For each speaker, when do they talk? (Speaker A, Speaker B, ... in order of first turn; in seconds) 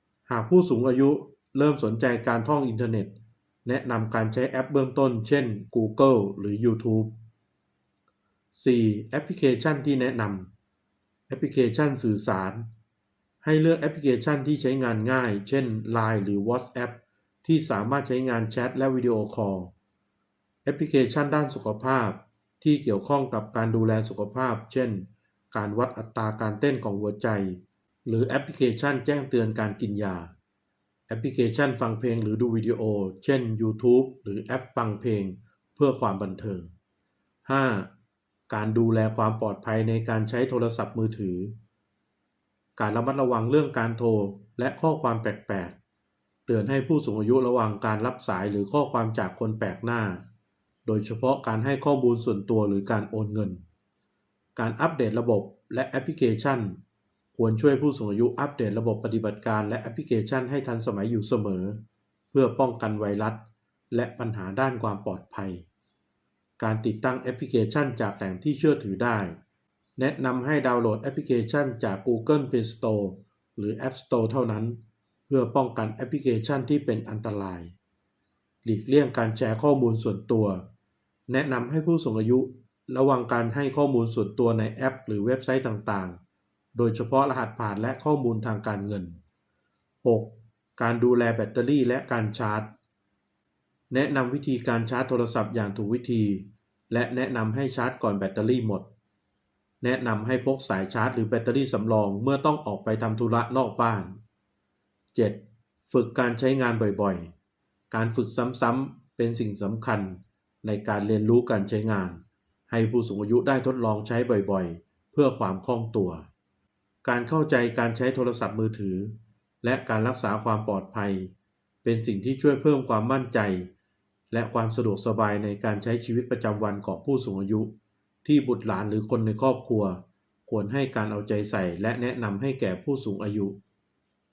Speaker A: 0.3-7.2, 8.5-10.5, 11.3-12.7, 13.4-19.7, 20.6-30.3, 31.1-36.7, 37.5-37.9, 38.5-41.6, 42.8-45.8, 46.5-50.2, 50.9-53.6, 54.6-56.8, 57.3-65.7, 66.6-69.4, 70.0-77.8, 78.6-80.7, 81.3-86.2, 86.8-89.2, 90.0-92.7, 93.9-98.9, 99.8-104.2, 105.1-107.3, 107.9-116.3, 117.0-121.3, 121.8-123.7, 124.3-133.6